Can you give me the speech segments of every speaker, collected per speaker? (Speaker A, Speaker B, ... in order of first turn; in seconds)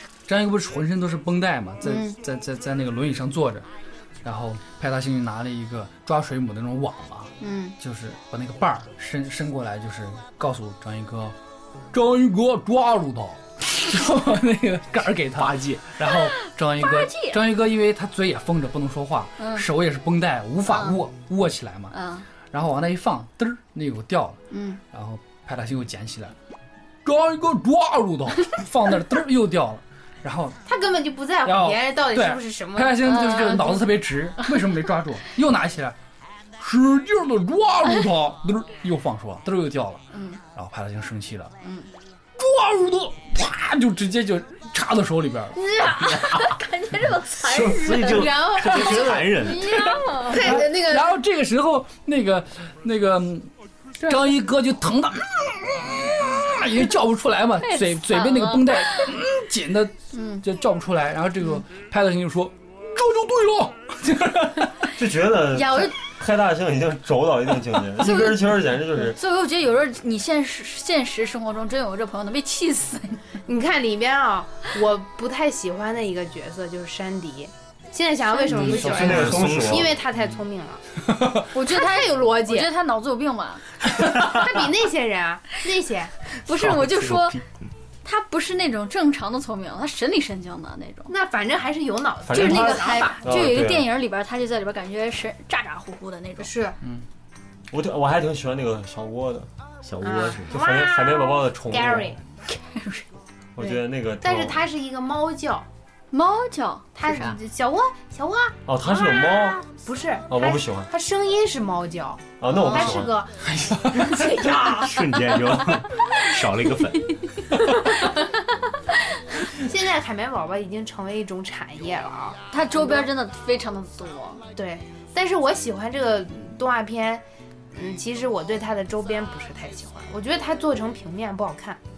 Speaker A: 0.3-3.7, 4.2-11.4, 11.9-22.0, 22.5-24.4, 24.9-26.4, 27.0-30.6, 31.4-36.0, 36.6-41.5, 42.4-45.6, 50.3-53.5, 54.0-64.9, 113.4-114.8
Speaker B: 1.8-2.2, 7.4-7.8, 16.0-17.4, 19.4-19.7, 20.7-21.0, 21.9-22.3, 24.5-24.8, 33.0-33.8, 40.1-40.4, 45.6-48.8, 49.4-50.6, 57.7-59.1, 60.1-60.4, 65.5-66.0, 68.0-73.2, 78.3-79.2, 81.5-83.6, 86.3-87.4, 88.0-91.1, 92.3-96.5, 102.5-103.1, 106.1-107.4, 112.7-113.0, 122.5-124.4
Speaker C: 30.7-33.6, 47.9-49.7, 50.2-51.1, 73.5-82.7, 84.0-86.1, 91.1-93.2, 96.4-96.8, 100.0-102.2, 103.6-105.7, 107.0-113.4, 114.0-114.7, 119.5-123.1, 124.5-131.8
Speaker D: 46.0-46.6, 47.4-49.9, 78.9-80.0, 86.6-87.4, 99.8-100.6, 114.7-117.2
Speaker E: 64.9-69.2, 78.5-80.0, 92.3-93.9, 97.7-99.5, 100.5-102.2, 103.6-104.7, 108.7-109.7, 110.3-110.9, 112.4-113.2